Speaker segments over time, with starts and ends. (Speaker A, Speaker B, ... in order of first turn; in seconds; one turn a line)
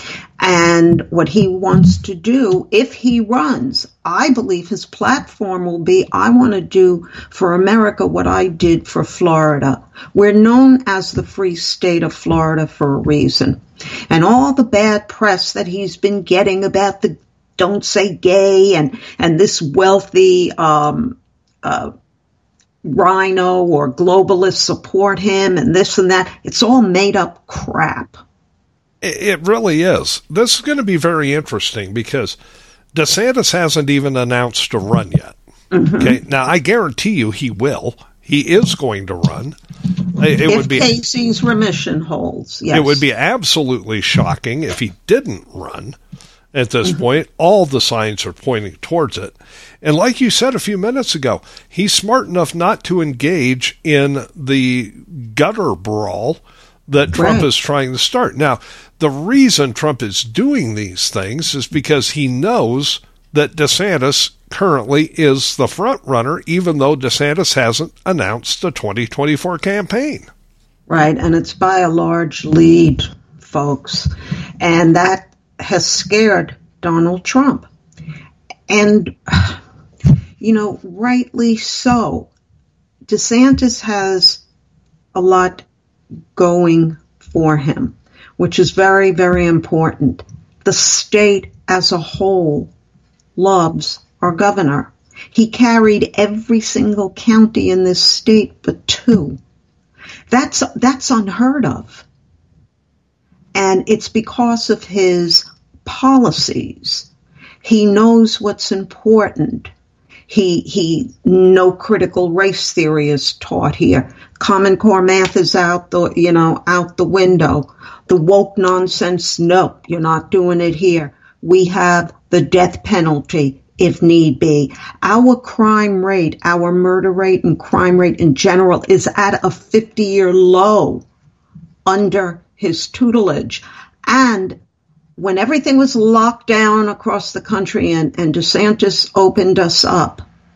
Speaker A: 0.4-21.9
Speaker A: 22.8-28.2
Speaker B: 29.0-32.4
Speaker B: 32.9-35.4
Speaker A: 35.7-36.2
Speaker B: 36.0-39.6
Speaker B: 40.2-40.9
Speaker A: 40.4-43.0
Speaker B: 42.7-46.0
Speaker B: 46.5-70.3
Speaker A: 57.1-57.5
Speaker A: 70.9-77.7
Speaker A: 78.7-79.6
Speaker A: 80.4-82.3
Speaker A: 83.1-84.4
Speaker A: 85.1-85.7
Speaker A: 86.3-92.7
Speaker A: 93.4-99.4
Speaker A: 100.3-102.1
Speaker A: 103.5-107.1
Speaker A: 107.6-109.7
Speaker A: 110.3-131.0
Speaker A: 131.9-134.6
Speaker A: 135.2-140.2